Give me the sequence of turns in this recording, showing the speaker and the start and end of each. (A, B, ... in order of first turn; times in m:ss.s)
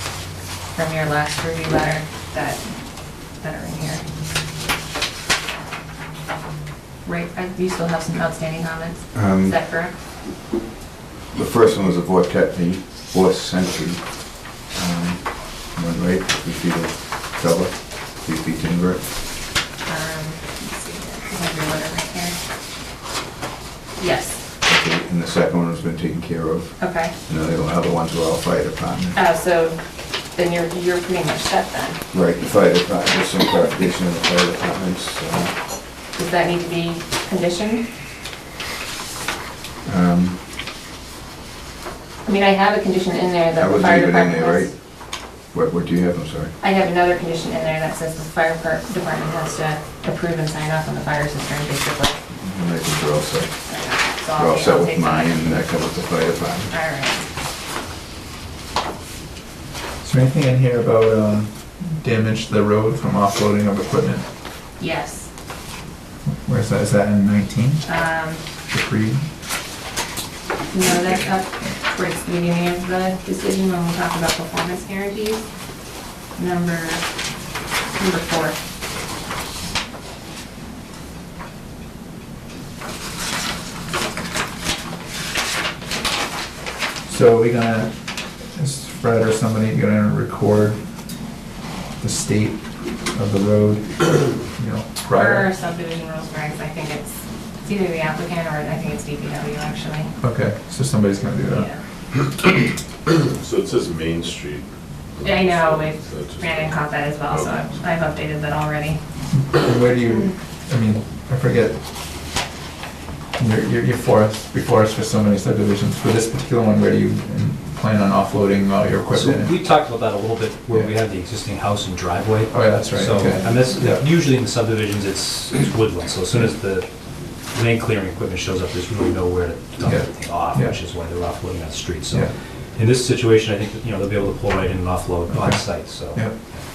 0:00.7-0:02.7 A
0:03.2-0:04.0 A
0:07.0-0:10.0 A
0:09.1-0:09.6 B
0:11.3-0:19.1 B
0:19.8-0:22.4 A
0:24.0-0:24.4 A
0:24.6-0:29.2 B
0:26.8-0:27.1 A
0:29.1-0:32.0 A
0:32.1-0:35.6 B
0:35.9-0:37.9 A
0:39.8-0:40.5 B
0:42.2-0:44.7 A
0:43.6-0:46.5 B
0:46.6-0:52.2 A
0:52.3-0:53.6 B
0:53.7-0:55.4 A
0:54.3-0:56.7 B
0:56.7-0:57.3 A
1:00.0-1:04.2 C
1:04.8-1:05.3 A
1:06.2-1:07.9 C
1:07.8-1:08.4 A
1:08.7-1:09.3 C
1:10.7-1:15.5 A
1:16.3-1:17.0 A
1:17.9-1:18.6 A
1:27.0-1:31.1 C
1:32.0-1:35.5 C
1:35.1-1:40.1 A
1:40.2-1:41.7 C
1:41.5-1:41.8 A
1:43.2-1:47.7 D
1:45.2-1:49.0 A
1:49.3-1:51.8 C
1:53.4-1:59.6 C
1:59.1-2:06.9 E
2:02.5-2:04.0 C
2:07.5-2:16.2 E
2:09.8-2:10.8 C
2:15.3-2:16.4 C